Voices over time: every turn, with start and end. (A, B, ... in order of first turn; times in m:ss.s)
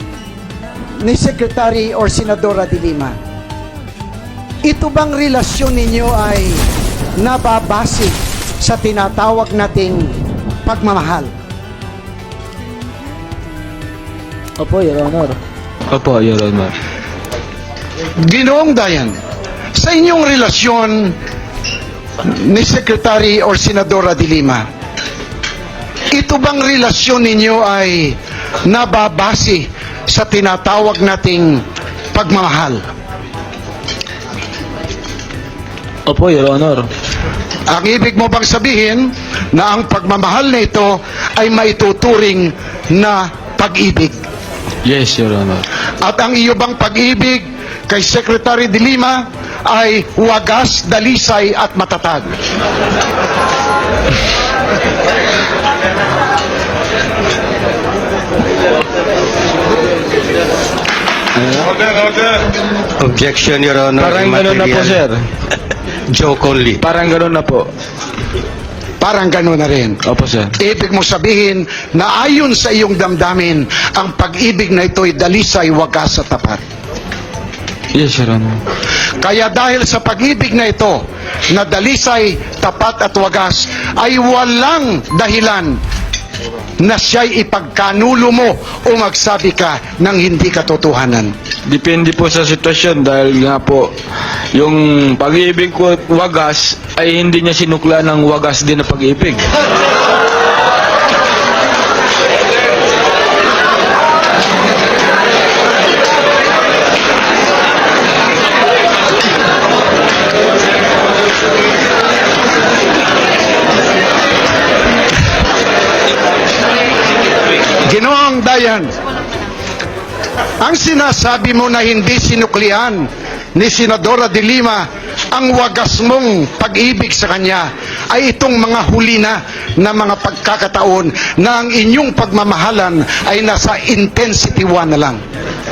0:01.0-0:03.2 A
0:04.6-0:06.6 A
0:07.2-0:11.3 A
0:14.6-0:15.4 B
0:15.9-0:16.7 B
0:18.2-0:19.1 A
0:19.8-0:21.2 A
0:22.2-0:24.6 A
0:26.1-0:32.8 A
0:36.1-0:36.9 B
0:37.7-0:44.2 A
0:44.8-0:45.6 B
0:46.0-0:52.3 A
1:01.4-1:01.7 B
1:03.0-1:05.0 C
1:04.0-1:05.3 B
1:06.1-1:06.8 C
1:06.8-1:07.7 B
1:09.0-1:10.0 A
1:10.0-1:10.5 B
1:10.6-1:16.6 A
1:17.9-1:18.6 B
1:19.2-1:25.8 A
1:26.8-1:31.3 A
1:31.7-1:33.9 B
1:34.5-1:39.4 B
1:57.8-1:58.9 A
2:00.6-2:15.2 A